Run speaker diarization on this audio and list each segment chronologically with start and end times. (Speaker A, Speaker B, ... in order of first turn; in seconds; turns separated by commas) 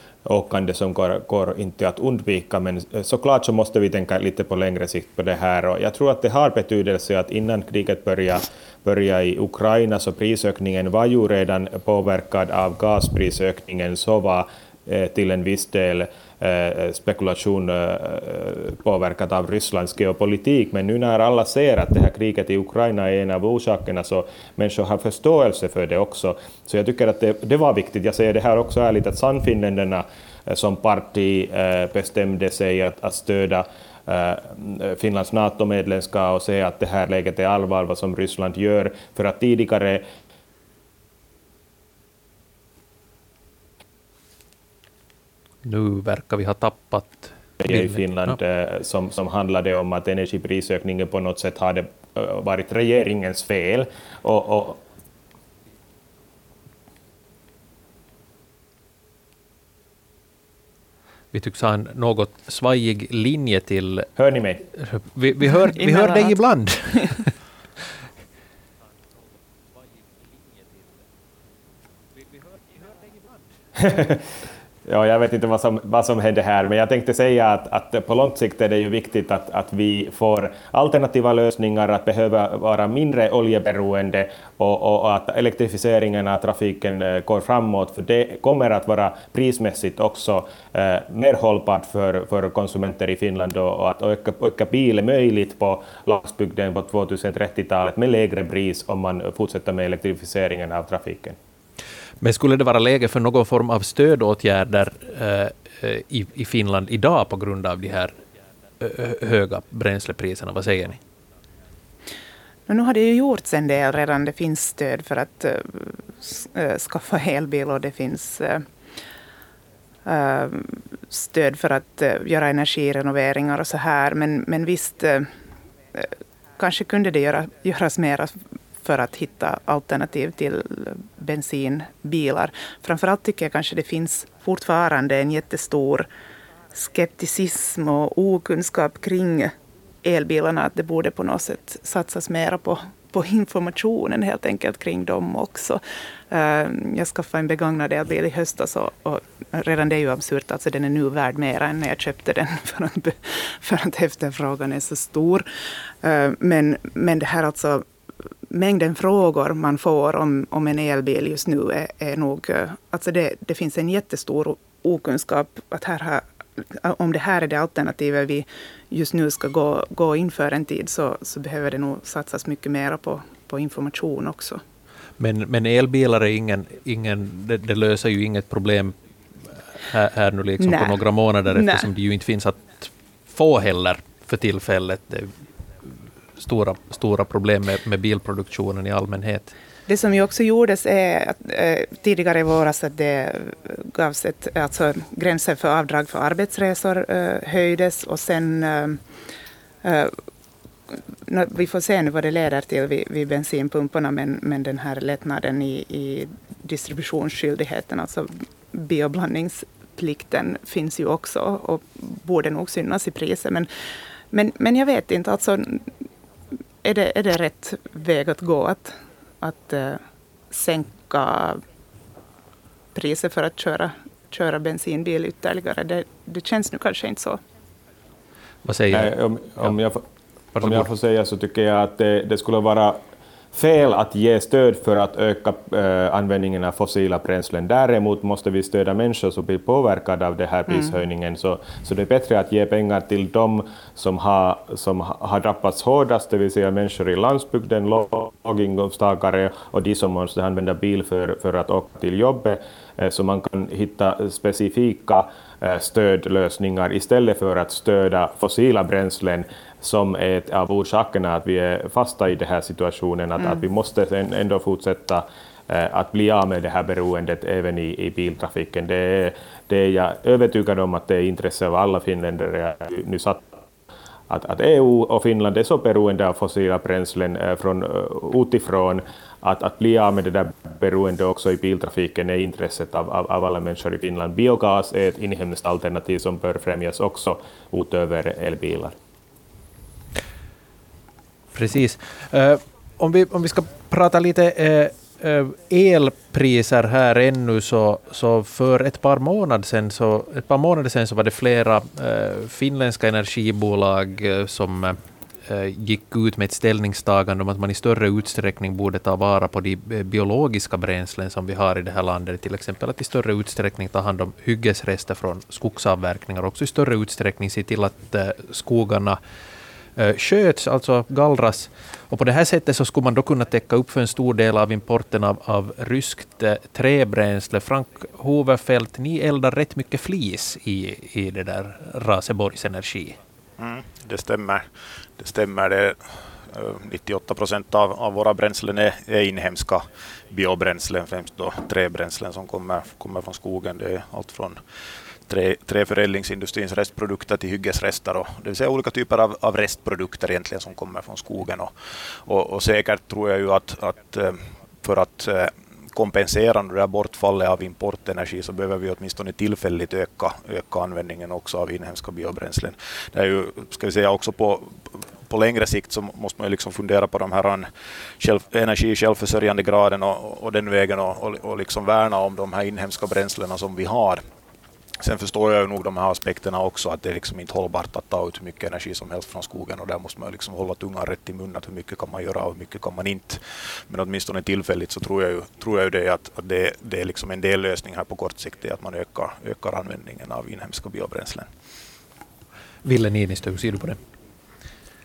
Speaker A: 0.2-40.0, Speaker B: 45.6-48.4, Speaker A: 47.6-54.8, Speaker B: 61.3-64.1, Speaker A: 64.2-64.7, Speaker B: 64.7-67.3, Speaker C: 65.8-66.3, Speaker A: 73.8-74.2, Speaker A: 74.8-101.3, Speaker B: 102.2-108.2, Speaker B: 108.8-111.0, Speaker C: 112.7-118.6, Speaker C: 120.0-125.3, Speaker C: 125.9-136.1, Speaker C: 136.7-155.4, Speaker C: 156.0-157.8, Speaker C: 158.5-174.6, Speaker B: 175.2-179.0, Speaker B: 179.8-185.3, Speaker C: 180.6-180.9, Speaker C: 181.5-181.9, Speaker B: 186.4-189.5, Speaker C: 189.9-199.0, Speaker C: 199.8-200.1, Speaker C: 200.9-213.7, Speaker C: 214.3-215.9, Speaker C: 216.8-221.6, Speaker C: 222.9-227.4, Speaker B: 228.6-229.1, Speaker A: 228.9-230.0, Speaker B: 230.6-230.8, Speaker A: 230.6-233.0, Speaker A: 233.5-273.4, Speaker A: 274.3-288.9, Speaker B: 291.5-319.2, Speaker B: 319.9-333.2, Speaker D: 333.6-334.7, Speaker D: 335.2-344.6, Speaker D: 345.3-351.7, Speaker D: 352.2-367.7, Speaker D: 368.2-374.2, Speaker D: 375.0-391.5, Speaker B: 392.8-394.0